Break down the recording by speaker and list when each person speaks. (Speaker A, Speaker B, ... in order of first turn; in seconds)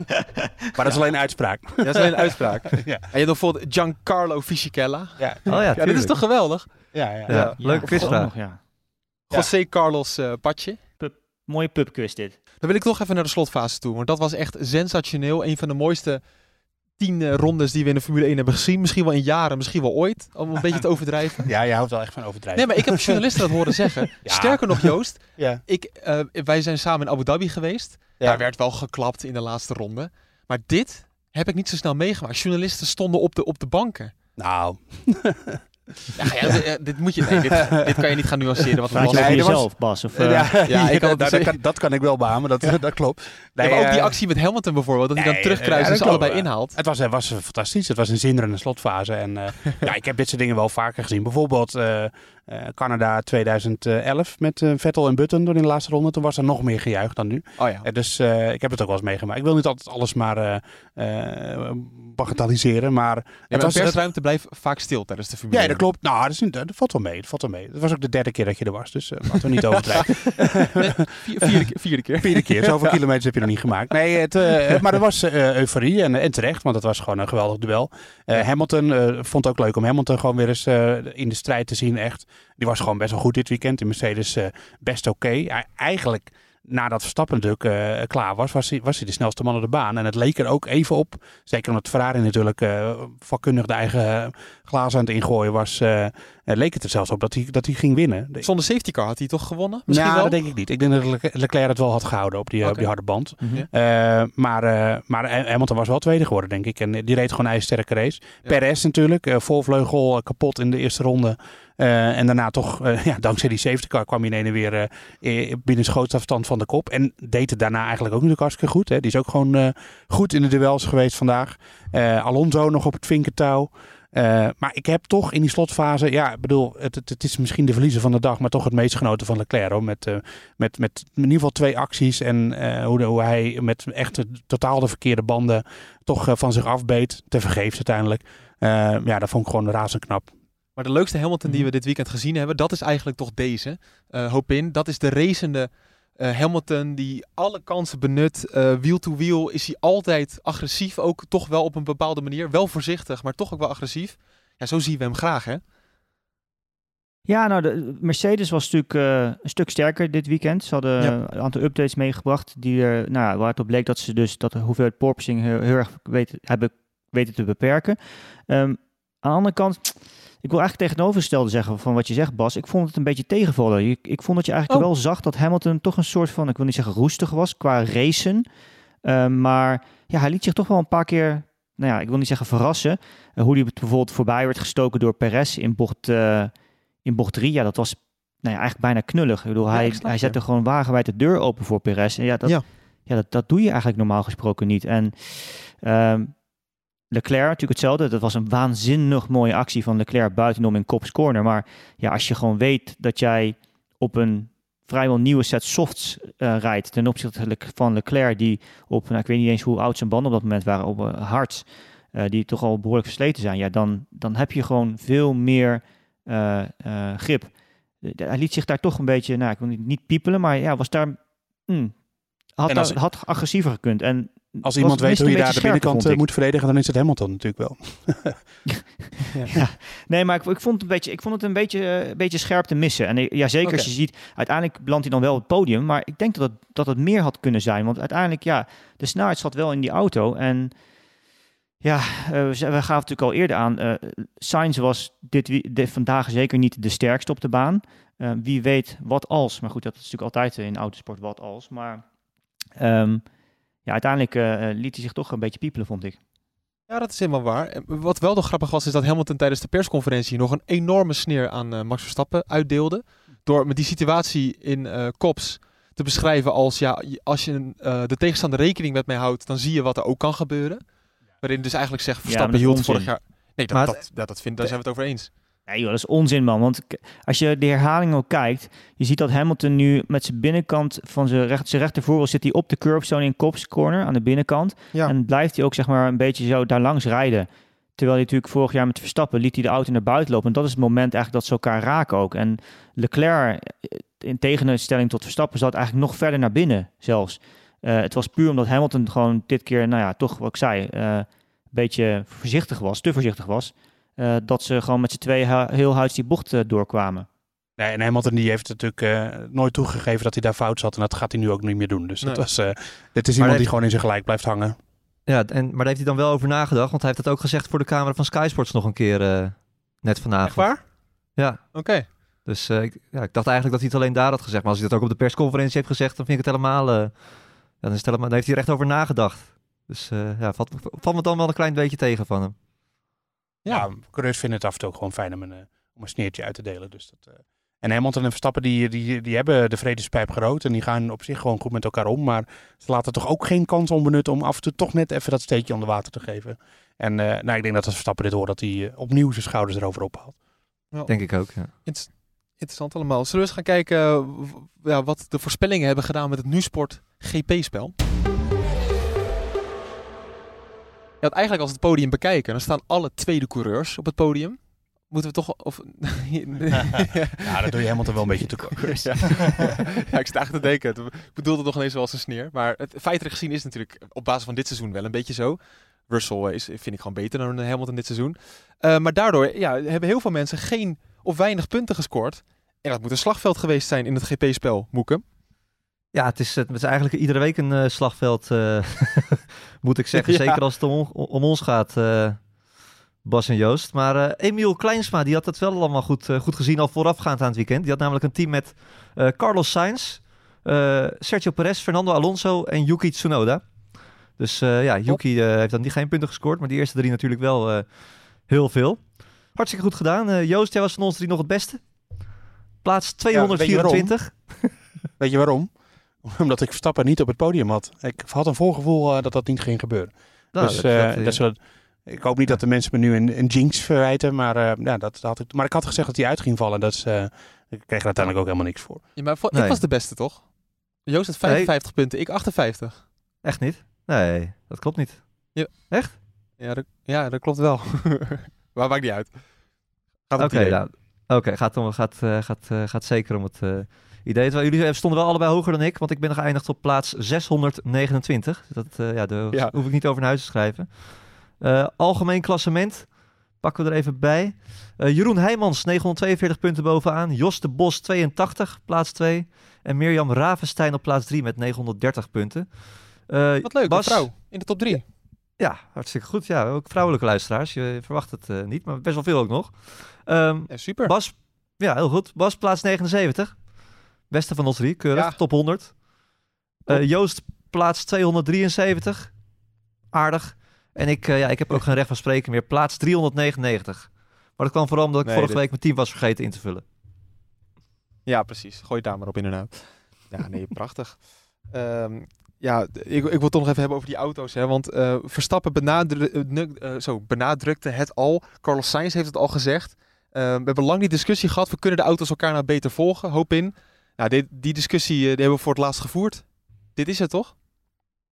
Speaker A: 0.7-3.0, 5.2-5.7, 6.9-7.5, 21.4-23.4, 24.2-25.6, 34.4-36.5, 38.9-44.2, 45.2-64.0, 65.5-71.7, 72.2-98.5, 99.9-140.3, 222.7-223.0, 224.6-228.4, 307.8-314.8, 333.7-350.4, 367.4-369.3, 413.3-429.0
Speaker B: 1.8-8.1, 9.3-10.8, 12.6-16.2, 17.0-21.5, 22.6-34.1, 36.2-39.6, 40.7-41.6, 43.6-46.8, 57.6-57.9, 63.5-65.8, 69.9-73.0, 98.4-100.4, 102.6-102.9, 140.8-155.6, 189.7-190.4, 233.6-233.9, 256.9-270.8, 271.4-275.3, 320.4-320.9, 321.7-322.1, 350.9-357.9, 361.2-385.2, 390.1-390.6, 429.2-433.1, 435.5-439.7, 440.3-440.9, 449.5-449.8, 463.6-465.1, 470.7-471.1, 475.1-475.4, 485.2-485.6, 488.3-507.5
Speaker C: 5.5-6.2, 7.3-8.3, 273.7-274.0, 313.4-313.7, 315.3-332.6, 351.1-351.7, 386.1-392.5, 393.2-414.9, 420.5-421.4, 429.5-429.8, 431.4-431.7, 433.4-436.2, 440.4-476.0, 476.9-479.3, 480.1-486.9
Speaker D: 7.6-8.6, 11.0-12.4, 38.9-40.5, 103.4-103.7, 157.3-178.4, 179.1-186.5, 187.0-196.4, 197.1-222.0, 222.6-226.2, 229.5-240.7, 241.8-252.0, 252.8-253.2, 253.8-256.2, 272.2-273.1, 275.7-307.3